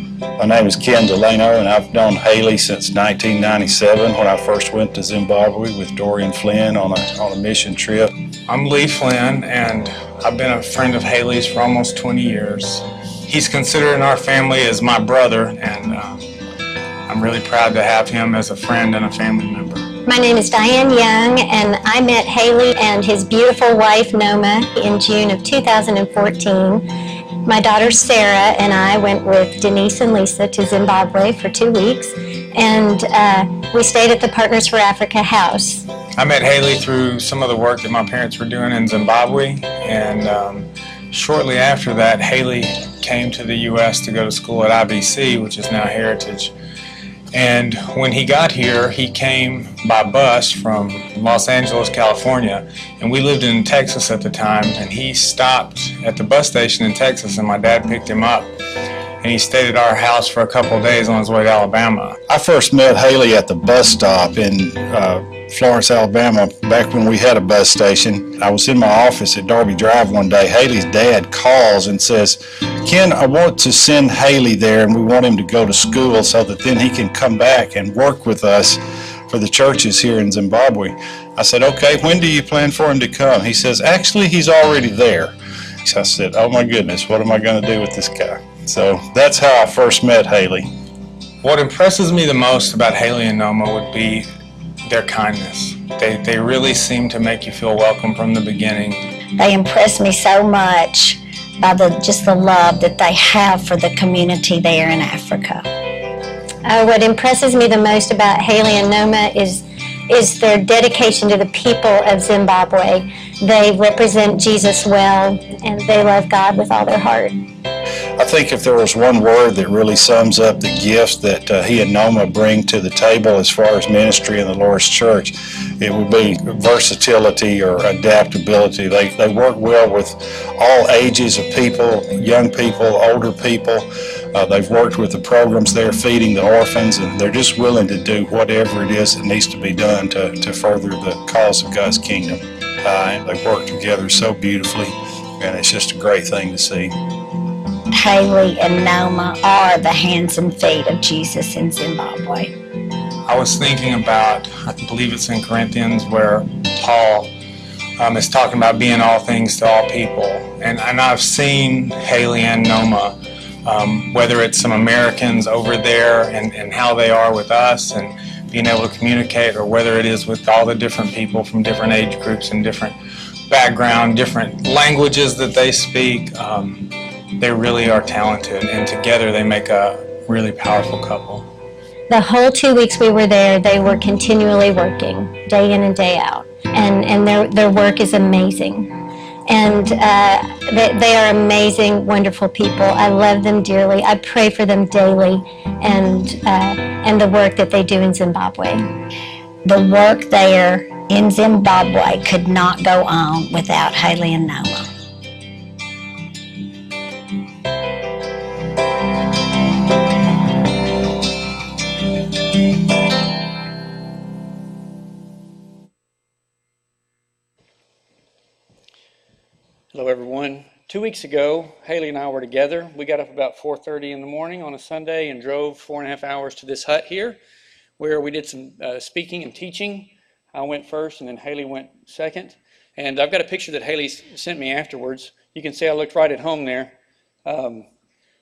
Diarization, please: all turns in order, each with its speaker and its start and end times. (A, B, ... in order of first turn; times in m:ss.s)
0:00.4-0:08.1 A
0:08.5-0:16.3 B
0:17.1-0:19.9 B
0:20.0-0:26.9 C
0:27.4-0:35.8 C
0:36.2-0:46.5 B
0:47.3-0:58.5 B
0:59.2-1:02.2 B
1:02.3-1:30.7 A
1:31.4-1:34.3 B
1:34.8-1:39.1 B
1:39.4-1:45.6 D
1:46.6-1:57.3 C
1:58.2-2:26.9 A
2:27.9-2:32.5 D
2:33.2-2:37.3 B
2:38.0-2:53.0 B
2:53.5-3:01.5 B
3:02.1-3:08.9 C
3:09.5-3:18.9 C
3:19.6-3:24.9 D
3:39.9-3:47.4 E
3:48.0-3:56.9 E
3:57.4-3:57.9 E